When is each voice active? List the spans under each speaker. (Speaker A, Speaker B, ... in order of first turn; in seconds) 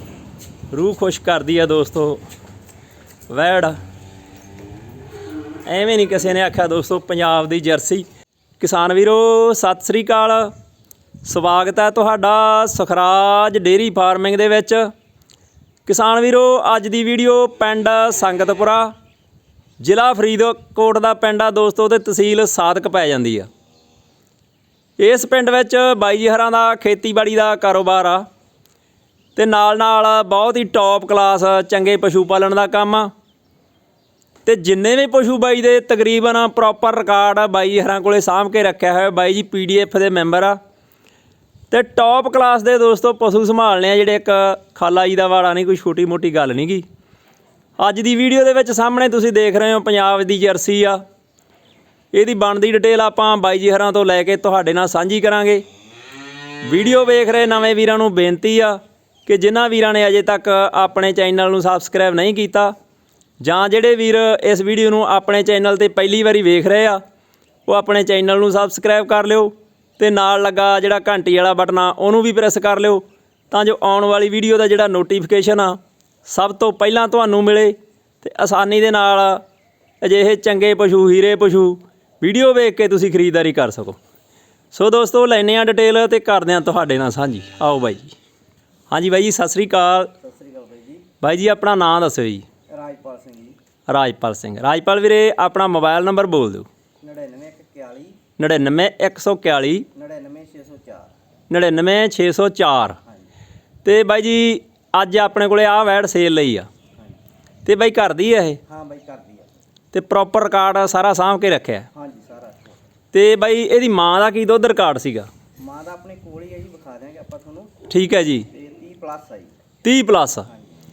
Speaker A: 0.7-2.2, 3.3-3.8, 5.7-8.1, 8.6-10.5, 11.2-14.9, 15.8-18.9, 19.8-23.5, 25.0-28.2, 29.4-33.1, 34.4-40.6, 41.7-46.8, 47.8-51.0, 52.1-55.6, 56.6-62.7, 63.4-67.0, 67.7-79.4, 80.0-84.0, 84.7-88.1, 88.9-90.1, 91.2-92.4, 93.9-96.7, 98.4-99.9, 101.5-103.0, 103.8-106.7, 107.6-108.6, 109.9-111.9, 113.1-115.3, 117.9-118.5, 119.8-120.5
Speaker B: 90.2-91.0, 92.7-93.5, 97.0-98.2, 99.9-101.1, 108.7-109.5, 111.9-112.8, 115.6-117.7, 118.5-119.5, 120.5-120.8